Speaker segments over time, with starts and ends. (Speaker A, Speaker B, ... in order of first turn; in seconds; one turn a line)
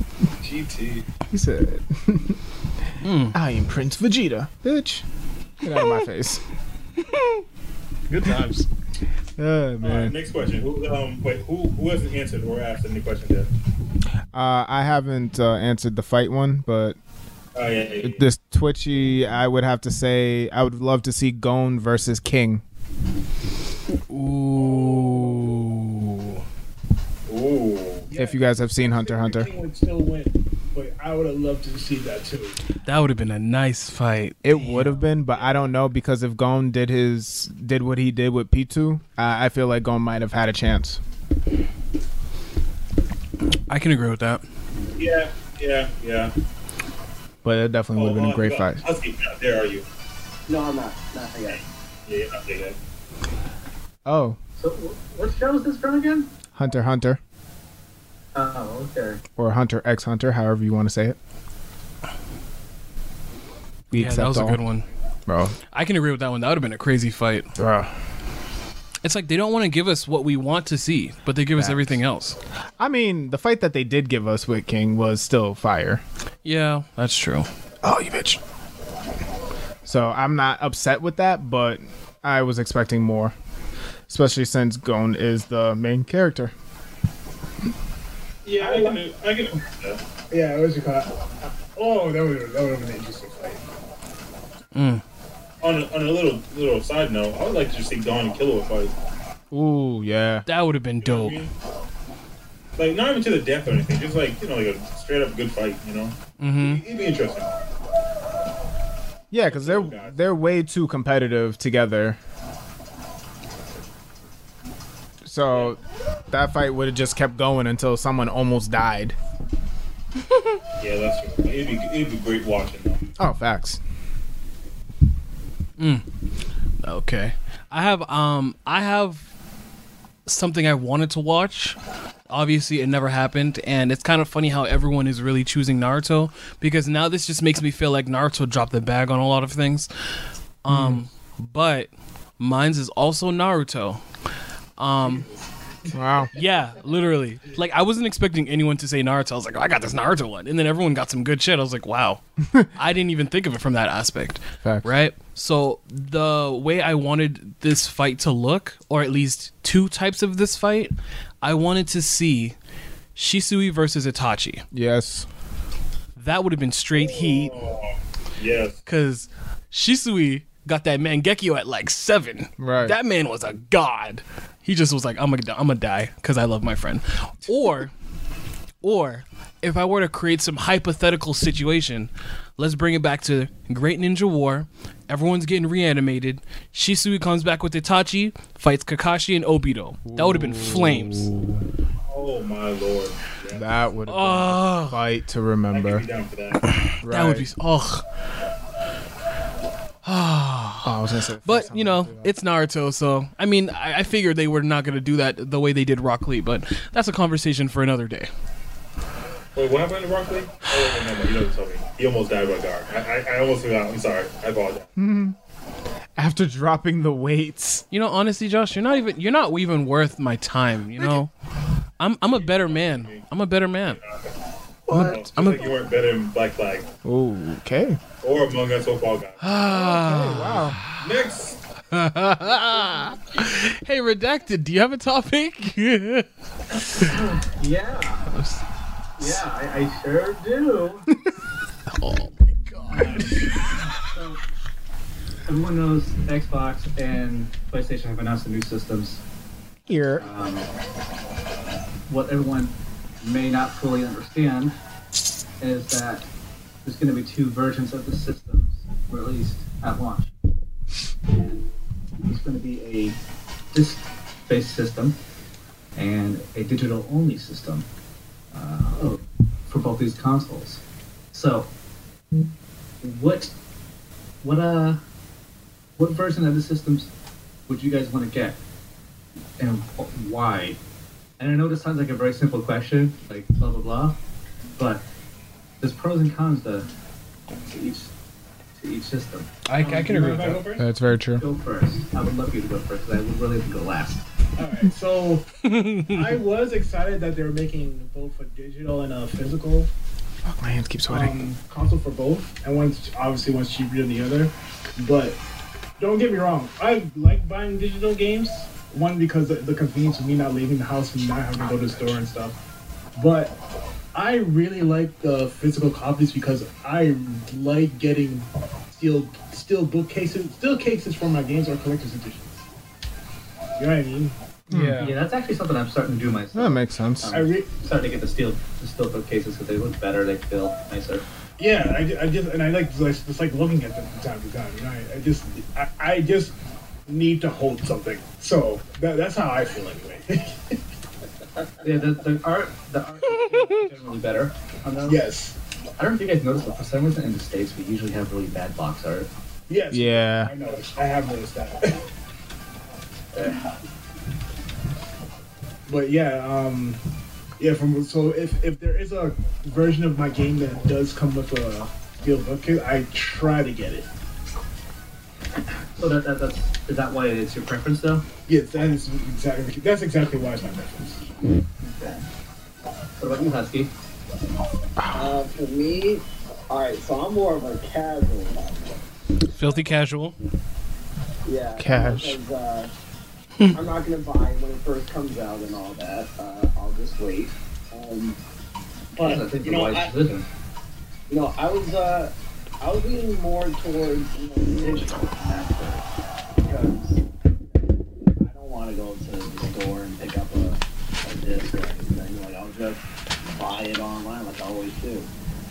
Speaker A: 0.4-1.1
Speaker B: 1.3-2.4
Speaker C: 3.0-3.4
Speaker B: 3.3-5.0
Speaker B: 5.6-6.4
Speaker C: 5.8-6.0
Speaker C: 7.0-7.4
Speaker C: 8.1-8.7
Speaker B: 9.4-10.2
Speaker A: 9.8-13.5
Speaker B: 14.3-17.0
Speaker A: 17.6-18.2
Speaker B: 18.0-22.6
Speaker C: 24.1-26.4
Speaker A: 27.3-28.1
Speaker D: 28.1-32.6
Speaker B: 28.1-29.5
Speaker C: 32.9-34.9
Speaker B: 34.4-41.0
Speaker C: 43.7-44.4
Speaker A: 45.0-46.3
Speaker B: 47.4-48.8
Speaker A: 47.9-49.9
Speaker E: 50.5-51.6
Speaker A: 51.5-52.8
Speaker B: 54.0-54.4
Speaker F: 54.6-56.3
Speaker B: 56.5-57.2
Speaker F: 58.4-59.2
Speaker B: 59.4-61.2
Speaker B: 63.9-64.6
Speaker C: 63.9-64.9
Speaker B: 65.3-65.6
Speaker C: 65.7-67.5
Speaker B: 67.6-67.9
Speaker C: 69.0-72.4
Speaker B: 71.5-72.0
Speaker B: 72.8-76.0
Speaker C: 76.5-77.5
Speaker B: 77.8-78.4
Speaker B: 79.8-83.3
Speaker B: 84.1-86.5
Speaker A: 88.5-90.0
Speaker D: 88.6-89.0
Speaker D: 90.3-93.7
Speaker C: 94.7-95.0
Speaker A: 95.6-98.9
Speaker B: 99.5-100.5
Speaker C: 100.5-101.4
Speaker A: 101.0-101.5
Speaker A: 102.8-107.5
Speaker C: 106.4-106.8
Speaker B: 109.3-112.2
Speaker A: 109.4-110.2
Speaker B: 115.2-115.8
Speaker B: 116.3-119.2
Speaker A: 120.8-123.0
Speaker B: 123.2-123.8
Speaker C: 125.8-126.0
Speaker C: 126.8-129.2
Speaker C: 130.3-131.8
Speaker C: 132.3-139.9
Speaker C: 140.6-144.0
Speaker B: 140.7-141.0
Speaker C: 144.8-145.3
Speaker D: 145.0-145.9
Speaker B: 145.9-146.3
Speaker C: 146.3-162.6
Speaker B: 154.6-154.9
Speaker C: 163.2-164.7
Speaker B: 164.7-165.3
Speaker C: 166.2-167.6
Speaker A: 166.9-168.8
Speaker C: 168.9-177.9
Speaker B: 172.6-173.0
Speaker C: 178.8-191.3
Speaker B: 190.1-191.7
Speaker A: 192.1-193.9
Speaker B: 193.5-196.1
Speaker C: 194.1-195.0
Speaker A: 195.7-196.7
Speaker C: 196.9-198.0
Speaker B: 197.0-197.5
Speaker C: 200.0-208.3
Speaker B: 200.8-202.3
Speaker A: 209.6-214.9
Speaker B: 215.0-215.4
Speaker B: 216.2-217.8
Speaker C: 217.9-221.3
Speaker C: 222.0-224.0
Speaker A: 222.3-223.2
Speaker A: 223.9-224.3
Speaker C: 224.9-225.7
Speaker A: 224.9-226.9
Speaker B: 227.0-228.0
Speaker A: 228.2-229.5
Speaker C: 229.4-231.3
Speaker B: 229.7-230.8
Speaker A: 231.0-231.6
Speaker C: 231.9-236.3
Speaker C: 236.8-237.1
Speaker F: 236.9-238.3
Speaker C: 238.3-238.6
Speaker F: 239.2-241.1
Speaker C: 241.9-243.6
Speaker F: 244.0-244.4
Speaker F: 245.5-249.2
Speaker B: 249.9-250.3
Speaker F: 250.2-250.7
Speaker F: 252.1-254.8
Speaker F: 255.6-256.3
Speaker F: 256.9-260.3
Speaker F: 261.3-261.7
Speaker F: 262.2-263.2
Speaker F: 263.7-265.2
Speaker F: 265.9-267.9
Speaker F: 268.5-271.7
Speaker F: 273.0-273.5
Speaker F: 274.4-275.0
Speaker F: 276.0-277.1
Speaker F: 277.7-278.6
Speaker F: 279.6-280.8
Speaker F: 281.4-284.2
Speaker F: 284.8-285.0
Speaker F: 285.8-286.9
Speaker F: 287.7-288.1
Speaker F: 288.8-289.6
Speaker C: 289.7-290.6
Speaker D: 289.7-290.9
Speaker B: 290.8-291.4
Speaker F: 291.4-294.2
Speaker D: 294.6-295.5
Speaker C: 295.6-296.2
Speaker D: 296.0-299.9
Speaker B: 300.4-301.4
Speaker D: 301.1-305.4
Speaker D: 306.0-312.6
Speaker D: 313.2-313.6
Speaker D: 314.1-322.6
Speaker D: 323.8-325.2
Speaker B: 324.7-325.1
Speaker F: 324.9-331.2
Speaker B: 326.5-327.4
Speaker D: 327.3-327.7
Speaker D: 331.6-336.5
Speaker D: 337.1-340.8
Speaker F: 341.8-345.2
Speaker D: 345.1-345.6
Speaker F: 346.0-349.3
Speaker D: 349.7-352.0
Speaker B: 349.9-350.5
Speaker D: 353.4-353.6
Speaker D: 355.9-357.0
Speaker D: 357.6-364.1
Speaker F: 366.0-368.2
Speaker D: 368.5-371.2
Speaker F: 371.8-372.2
Speaker F: 373.2-373.9
Speaker B: 375.0-375.4
Speaker E: 375.1-379.0
Speaker C: 379.5-380.4
Speaker E: 381.4-382.9
Speaker B: 381.8-382.4
Speaker E: 383.6-388.4
Speaker E: 389.1-390.1
Speaker F: 389.2-390.5
Speaker E: 391.3-396.0
Speaker E: 396.6-405.3